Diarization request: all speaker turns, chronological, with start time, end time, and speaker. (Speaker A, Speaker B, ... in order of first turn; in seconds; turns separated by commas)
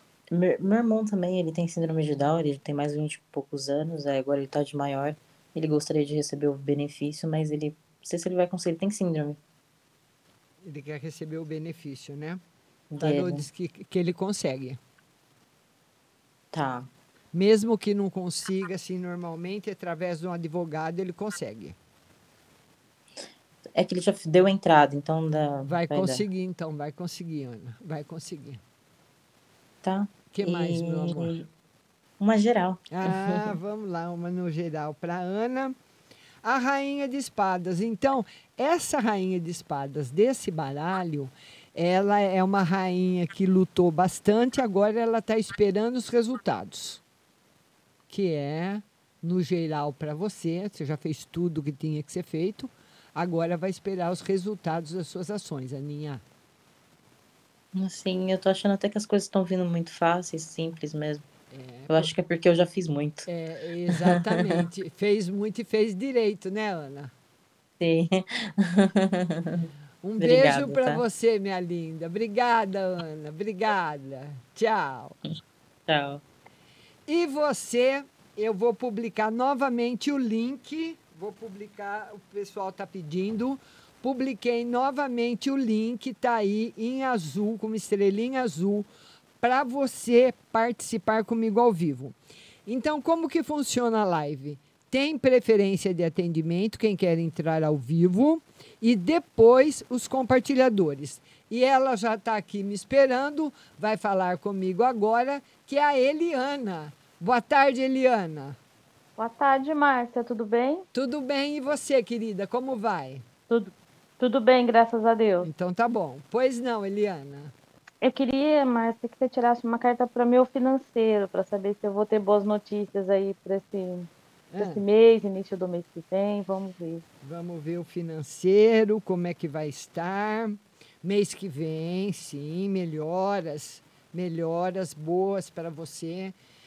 Speaker A: 0.3-9.4, Speaker B: 10.6-12.4, Speaker A: 12.9-13.5, Speaker B: 13.0-14.8, Speaker A: 16.5-16.9, Speaker B: 17.3-21.8, Speaker A: 23.7-26.2, Speaker B: 25.6-28.6, Speaker A: 29.8-31.5, Speaker B: 30.3-31.3, Speaker A: 32.2-33.5, Speaker B: 32.9-35.7, Speaker B: 36.4-47.0, Speaker B: 48.1-56.2, Speaker A: 57.7-61.2, Speaker B: 61.5-62.1, Speaker A: 61.9-63.3, Speaker B: 63.2-67.1, Speaker A: 63.9-64.6, Speaker A: 67.8-71.0, Speaker B: 70.0-75.1, Speaker A: 75.9-76.2, Speaker B: 77.1-88.9, Speaker B: 89.4-108.6, Speaker C: 109.2-110.8, Speaker B: 110.9-113.2, Speaker C: 113.5-115.5, Speaker B: 115.4-117.5, Speaker C: 118.0-127.0, Speaker B: 124.5-124.8, Speaker B: 127.2-136.3